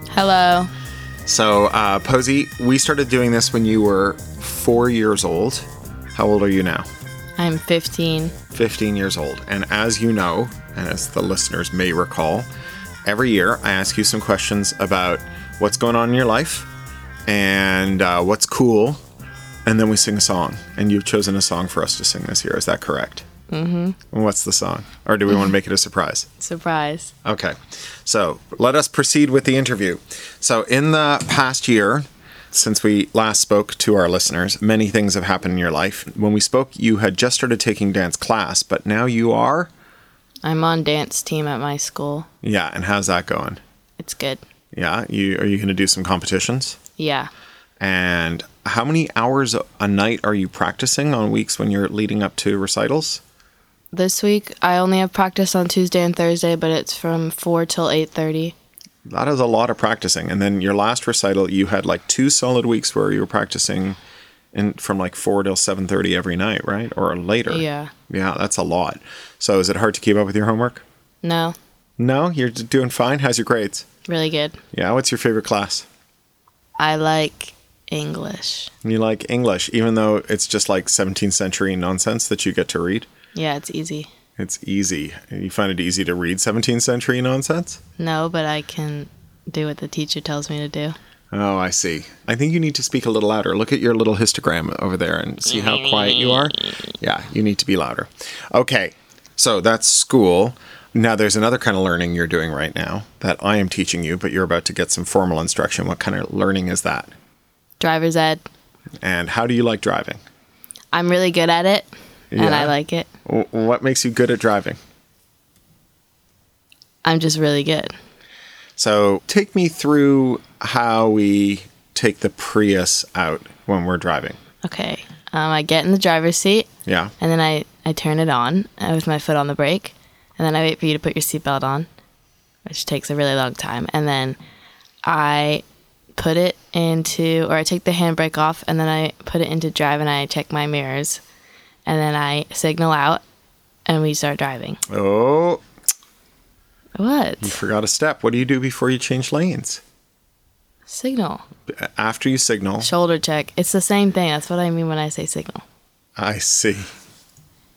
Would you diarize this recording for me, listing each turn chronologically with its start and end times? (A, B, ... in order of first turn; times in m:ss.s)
0:00.1-0:00.7 A
0:01.2-0:06.8 B
0:07.4-0:08.3 A
0:08.5-0:12.5 B
0:13.0-0:16.7 B
0:17.3-0:19.0 B
0:19.6-0:23.2 B
0:23.5-0:24.0 A
0:24.1-0:26.3 B
0:26.4-0:27.1 A
0:27.2-0:39.7 B
0:40.4-0:42.3 A
0:42.4-0:43.6 B
0:44.0-0:44.4 A
0:44.7-0:46.8 B
0:47.0-0:47.3 A
0:47.8-0:53.2 B
0:53.9-0:58.5 A
0:59.1-1:04.0 B
1:04.5-1:10.8 B
1:07.5-1:07.9 A
1:11.2-1:11.5 A
1:12.0-1:13.8 B
1:14.0-1:14.6 A
1:14.7-1:15.9 B
1:16.8-1:18.7 A
1:18.8-1:23.1 B
1:23.3-1:24.1 A
1:24.4-1:27.8 B
1:28.0-1:31.0 A
1:31.3-1:47.1 B
1:47.8-1:48.4 A
1:49.0-1:50.2 B
1:50.9-1:53.1 A
1:52.3-1:52.7 B
1:53.2-1:54.8 B
1:57.0-1:57.9 A
1:58.8-2:04.4 B
2:04.6-2:11.9 A
2:06.8-2:07.1 B
2:12.6-2:14.4 A
2:15.0-2:15.6 A
2:16.2-2:21.2 A
2:21.8-2:23.2 A
2:23.9-2:24.8 A
2:24.9-2:25.6 B
2:27.0-2:27.6 A
2:27.4-2:29.8 B
2:30.9-2:31.4 A
2:31.7-2:32.9 B
2:32.8-2:35.6 A
2:36.2-2:36.9 B